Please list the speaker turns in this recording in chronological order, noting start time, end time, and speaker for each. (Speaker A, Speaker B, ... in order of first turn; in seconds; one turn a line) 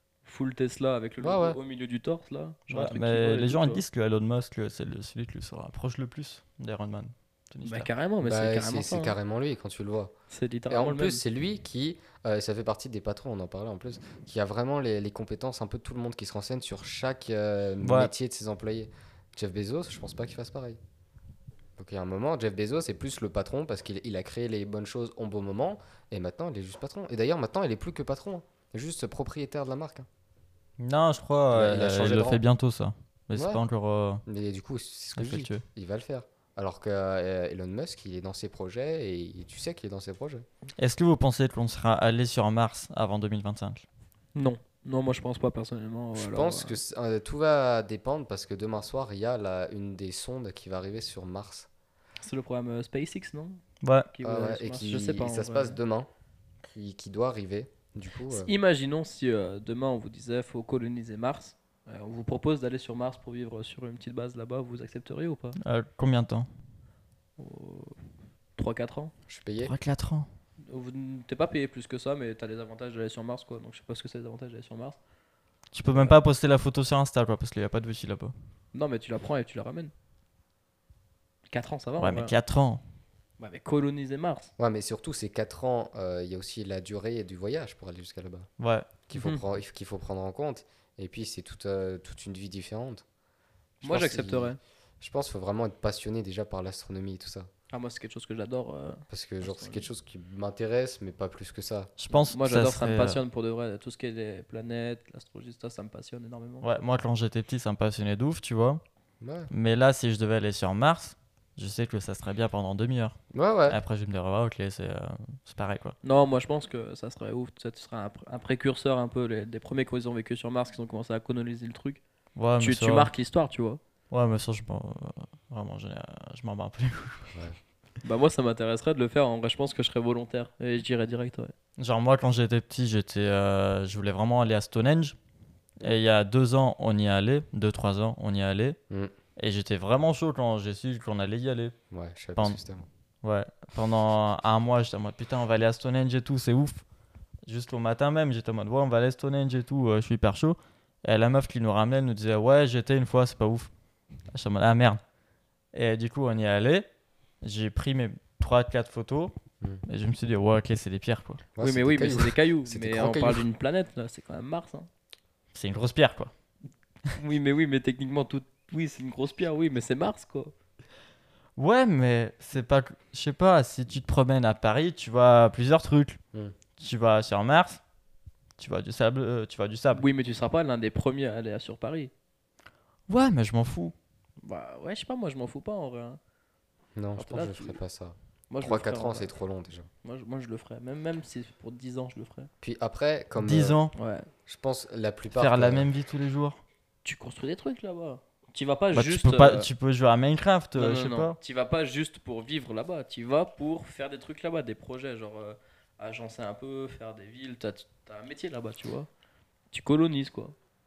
Speaker A: 0.2-3.8
Speaker B: 1.2-1.6
Speaker C: 2.7-7.9
Speaker A: 7.6-9.2
Speaker B: 8.2-10.1
Speaker A: 10.3-11.2
Speaker B: 10.7-20.8
Speaker C: 17.8-18.1
Speaker B: 21.8-30.1
Speaker C: 30.8-34.2
Speaker B: 31.5-32.4
Speaker B: 33.3-33.6
Speaker B: 34.2-40.4
Speaker C: 35.1-35.6
Speaker C: 40.8-43.8
Speaker A: 44.3-46.8
Speaker B: 46.2-51.7
Speaker A: 52.2-53.6
Speaker C: 53.8-54.1
Speaker A: 54.1-55.8
Speaker B: 54.2-56.1
Speaker B: 56.6-58.5
Speaker A: 58.3-65.6
Speaker C: 65.6-66.5
Speaker A: 67.4-68.0
Speaker A: 68.6-69.1
Speaker B: 69.3-69.7
Speaker C: 69.6-70.3
Speaker A: 70.7-75.0
Speaker C: 75.7-78.3
Speaker A: 75.9-76.2
Speaker A: 78.7-79.9
Speaker A: 81.5-82.3
Speaker C: 82.0-82.8
Speaker A: 83.4-84.5
Speaker B: 84.6-88.5
Speaker C: 88.6-88.9
Speaker B: 89.1-93.0
Speaker A: 89.1-89.4
Speaker B: 93.8-97.5
Speaker A: 93.8-94.6
Speaker A: 97.7-99.9
Speaker B: 99.1-101.9
Speaker C: 102.0-103.2
Speaker A: 102.1-106.7
Speaker C: 106.6-108.8
Speaker B: 109.2-109.5
Speaker C: 109.5-113.2
Speaker B: 113.3-113.8
Speaker C: 113.7-115.9
Speaker A: 116.0-122.0
Speaker C: 122.3-123.1
Speaker A: 122.6-123.8
Speaker C: 124.1-127.3
Speaker A: 128.0-131.5
Speaker C: 131.8-135.1
Speaker C: 135.8-138.8
Speaker C: 139.4-141.7
Speaker B: 141.9-142.9
Speaker C: 143.2-146.8
Speaker C: 147.4-153.7
Speaker C: 154.3-155.0
Speaker C: 155.7-156.8
Speaker C: 157.4-159.3
Speaker C: 159.8-161.4
Speaker B: 161.6-163.4
Speaker A: 161.6-164.9
Speaker C: 165.5-166.3
Speaker A: 167.1-170.5
Speaker C: 171.6-176.2
Speaker C: 176.8-177.8
Speaker C: 178.6-180.0
Speaker A: 179.9-182.1
Speaker C: 183.1-183.9
Speaker A: 184.4-186.2
Speaker B: 186.9-189.9
Speaker A: 187.2-187.8
Speaker A: 188.5-189.3
Speaker A: 190.0-192.5
Speaker B: 192.6-193.8
Speaker C: 193.4-193.9
Speaker A: 193.9-194.3
Speaker B: 194.4-195.9
Speaker C: 195.3-196.6
Speaker A: 197.0-199.7
Speaker C: 198.9-201.4
Speaker A: 200.7-209.1
Speaker A: 209.7-210.5